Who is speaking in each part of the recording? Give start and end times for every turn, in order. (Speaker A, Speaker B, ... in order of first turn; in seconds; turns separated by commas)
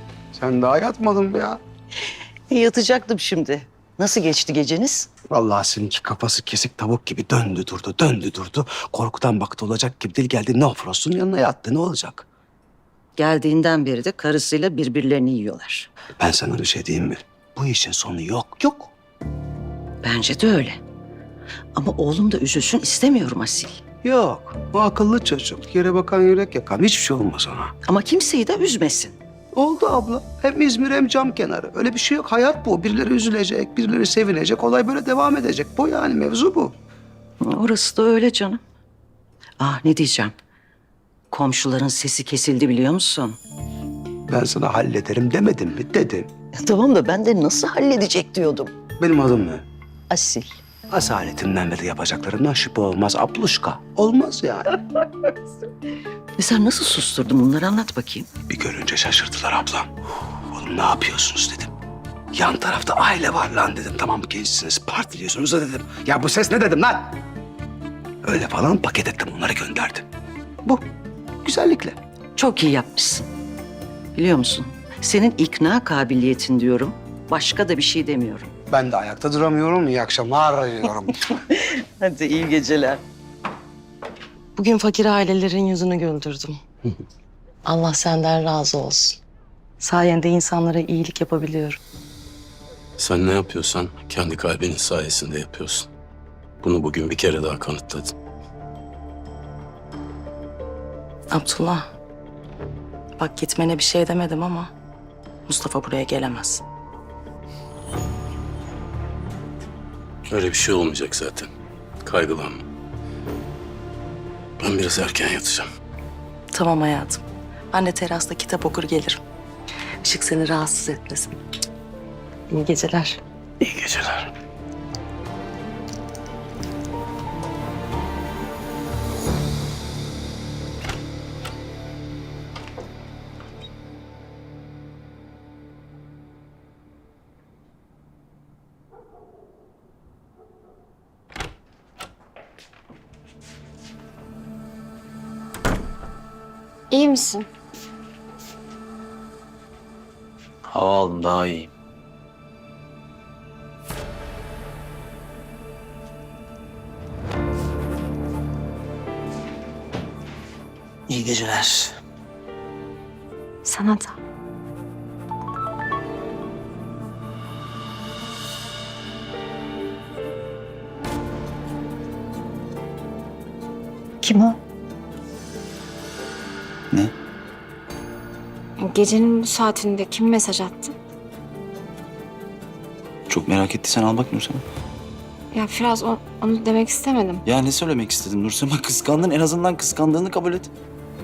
Speaker A: 0.3-1.6, Speaker B: 2.5-5.1, Speaker A: 5.3-12.3, Speaker B: 13.2-15.9, Speaker A: 16.2-18.9, Speaker B: 20.0-20.8, Speaker B: 21.8-23.7, Speaker A: 24.0-27.7, Speaker B: 27.9-29.2, Speaker A: 29.5-36.7, Speaker B: 37.4-38.6, Speaker B: 39.6-40.3, Speaker B: 41.3-43.4, Speaker A: 44.3-46.3, Speaker B: 46.6-48.7, Speaker A: 49.0-49.6, Speaker B: 50.1-50.5, Speaker A: 50.9-54.7, Speaker B: 56.4-58.3, Speaker A: 58.5-61.7, Speaker A: 62.3-67.2, Speaker A: 68.2-70.0, Speaker A: 71.4-72.0, Speaker B: 72.4-73.3, Speaker B: 74.2-78.5, Speaker A: 78.7-81.2, Speaker B: 81.7-83.0, Speaker C: 84.5-86.6, Speaker C: 87.6-89.2, Speaker C: 89.8-91.8, Speaker D: 93.0-95.9, Speaker D: 96.6-98.1, Speaker C: 101.3-101.9, Speaker C: 103.2-104.7, Speaker C: 105.5-106.6, Speaker D: 110.3-111.5, Speaker D: 112.0-112.6, Speaker D: 114.6-115.7, Speaker C: 116.5-119.2, Speaker C: 120.0-121.3, Speaker C: 122.5-123.2, Speaker D: 123.6-124.3, Speaker E: 146.9-147.5, Speaker F: 150.7-151.7, Speaker E: 163.6-164.2, Speaker E: 174.2-174.6, Speaker E: 178.8-180.9, Speaker F: 183.3-184.6, Speaker E: 185.5-187.4, Speaker F: 187.4-190.7